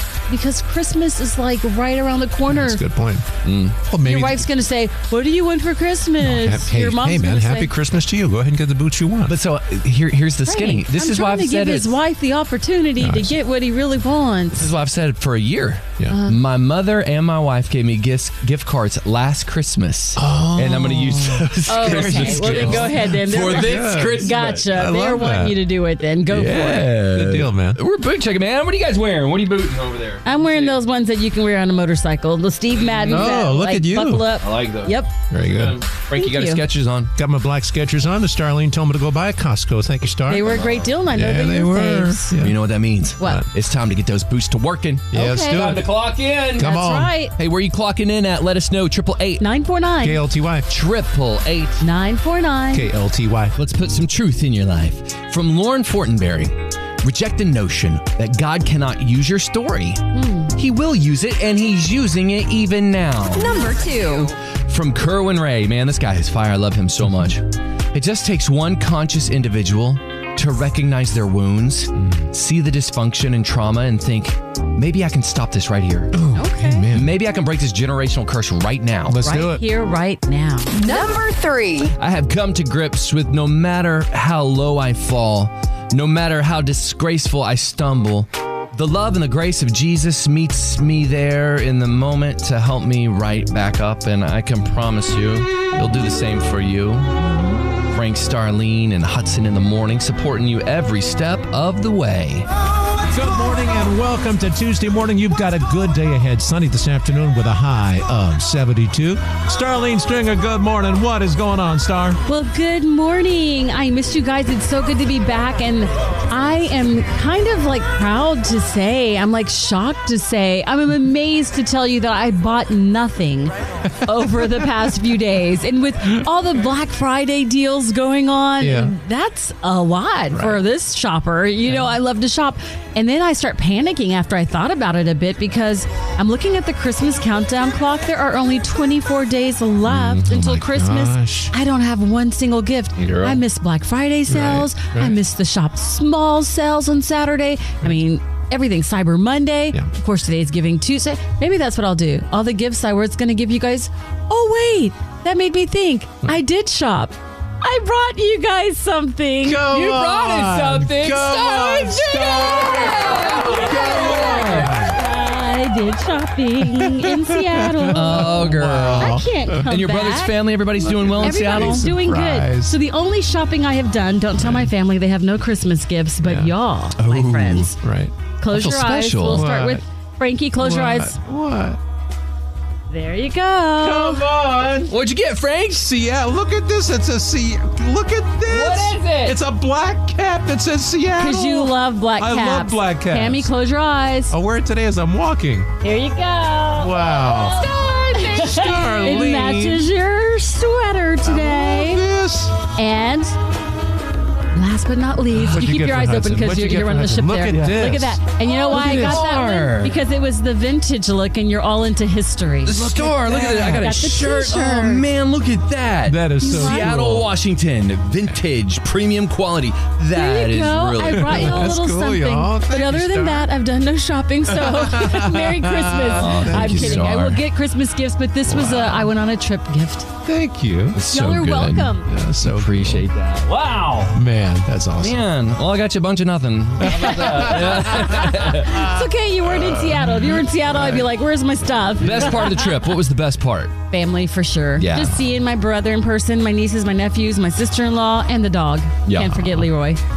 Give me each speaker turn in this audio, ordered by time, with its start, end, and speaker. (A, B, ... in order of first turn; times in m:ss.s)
0:00.3-0:02.8 A
0:02.5-0:04.5 B
0:03.4-0:03.8 C
0:04.0-0:07.7 A
0:06.2-0:09.4 B
0:09.3-0:12.0 C
0:10.5-0:14.7 A
0:13.0-0:13.4 B
0:14.6-0:24.6 C
0:16.1-0:16.4 A
0:20.2-0:25.6 B
0:21.7-0:26.9 A
0:26.3-0:30.8 C
0:27.0-0:27.8 B
0:30.2-0:35.1 A
0:33.0-0:33.3 C
0:33.1-0:34.4 B
0:34.4-0:35.0 C
0:35.3-0:35.8 B
0:35.5-0:37.1 C
0:36.2-0:36.6 A
0:37.2-0:42.6 B
0:40.3-0:42.4 A
0:40.5-0:40.9 C
0:42.4-0:46.8 C
0:43.2-0:43.5 B
0:45.1-0:45.8 B
0:45.1-0:45.7 A
0:46.6-0:47.2 B
0:46.6-0:47.3 A
0:47.4-0:49.4 C
0:49.4-0:50.2 A
0:50.0-0:50.7 B
0:50.7-0:51.8 C
0:51.8-0:52.9 A
0:52.7-0:53.6 B
0:53.6-1:03.5 C
1:00.1-1:00.5 A
1:03.3-1:04.3 D
1:04.7-1:16.1 C
1:12.0-1:12.3 B
1:16.1-1:17.2 B
1:16.3-1:16.9 A
1:16.9-1:19.2 C
1:19.1-1:19.6 B
1:19.2-1:21.1 A
1:20.7-1:21.9 D
1:22.0-1:37.1 C
1:37.9-1:42.5 C
1:43.1-1:52.2 B
1:52.3-2:39.7 A
2:04.2-2:04.7 B
2:08.6-2:09.0 B
2:10.3-2:10.6 B
2:19.9-2:21.5 B
2:23.0-2:23.4 C
2:24.3-2:25.2 B
2:39.4-2:45.0 B
2:39.6-2:44.8 C
2:42.3-2:50.4 A
2:46.6-2:49.7 B
2:47.9-2:51.9 C
2:50.8-2:52.8 B
2:51.2-2:57.8 A
2:54.4-2:54.7 B
2:56.2-2:56.5 B
2:57.0-2:57.7 C
2:57.8-2:58.1 B
2:58.4-3:01.2 A
2:58.5-2:59.4 C
2:59.3-2:59.8 B
3:00.6-3:01.8 B
3:02.9-3:04.2 A
3:03.8-3:04.9 B
3:04.9-3:05.9 C
3:05.8-3:13.5 B
3:08.5-3:09.4 C
3:11.2-3:14.4 A
3:14.3-3:15.7 B
3:15.8-3:22.0 A
3:16.8-3:19.9 B
3:21.2-3:22.7 B
3:22.8-3:23.4 A
3:24.5-3:35.1 A
3:25.3-3:29.3 B
3:28.5-3:30.0 C
3:32.6-3:41.8 C
3:33.4-3:33.8 B
3:36.1-3:37.3 B
3:36.4-3:37.0 A
3:40.1-3:50.1 A
3:41.1-3:43.5 B
3:44.5-3:47.4 B
3:46.1-3:47.4 C
3:48.5-3:49.1 B
3:50.2-3:51.0 B
3:50.9-3:54.2 C
3:51.1-3:52.1 A
3:52.1-3:53.1 B
3:54.1-3:55.3 B
3:55.0-3:58.7 C
3:56.8-3:58.7 B
3:57.0-4:02.8 A
3:59.6-4:01.0 B
4:02.0-4:03.8 C
4:03.9-4:10.0 A
4:04.8-4:05.2 C
4:09.0-4:09.4 C